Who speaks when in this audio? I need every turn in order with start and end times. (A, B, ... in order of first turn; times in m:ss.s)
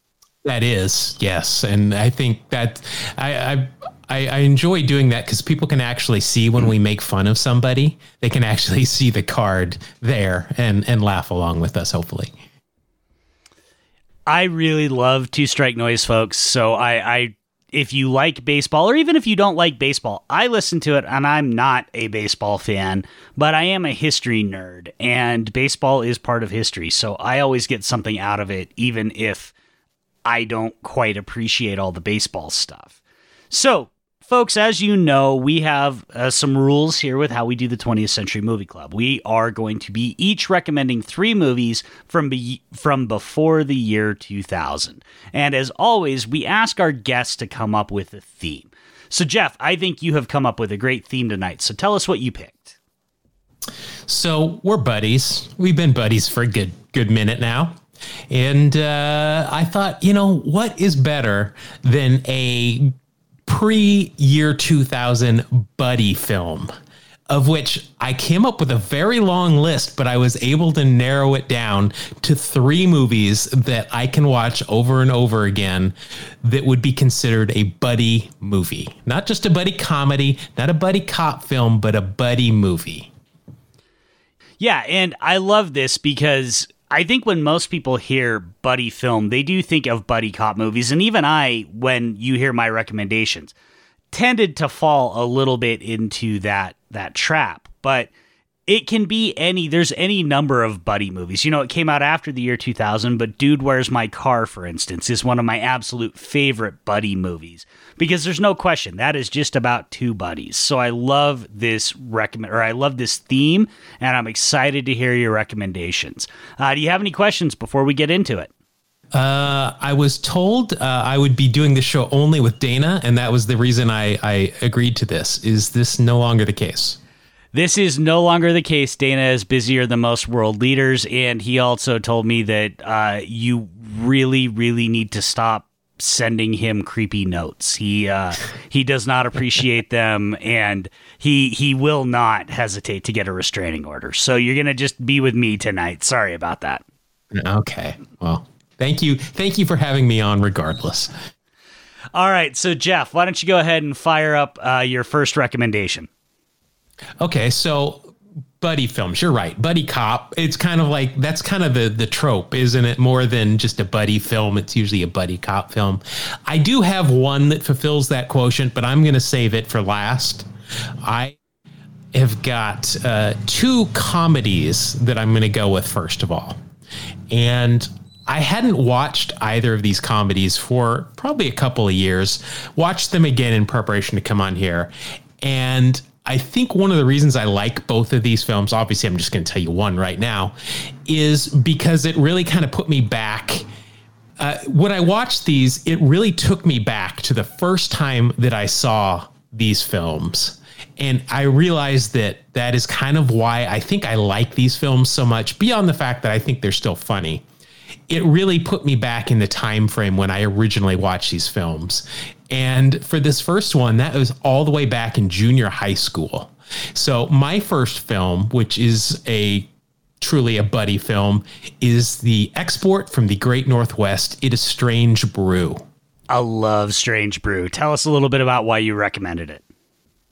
0:00.4-0:12.3 A
0:14.3-0:29.5 B
0:30.2-0:33.0 B
0:33.5-0:52.8 B
0:54.1-0:57.8 A
0:58.3-1:02.9 A
1:03.5-1:06.7 A
1:07.3-1:23.1 A
1:24.6-1:33.5 B
1:34.1-1:38.1 B
1:38.7-1:58.5 B
1:59.1-2:07.0 A
2:07.5-2:26.8 B
2:27.3-2:31.1 A
2:32.1-2:36.1 B
2:37.2-2:50.5 A
2:51.0-2:51.4 A
2:52.1-2:56.6 A
2:57.3-3:10.5 A
3:11.1-3:13.7 A
3:14.4-3:27.4 A
3:28.1-3:39.7 A
3:40.2-3:45.8 A
3:46.3-3:49.6 B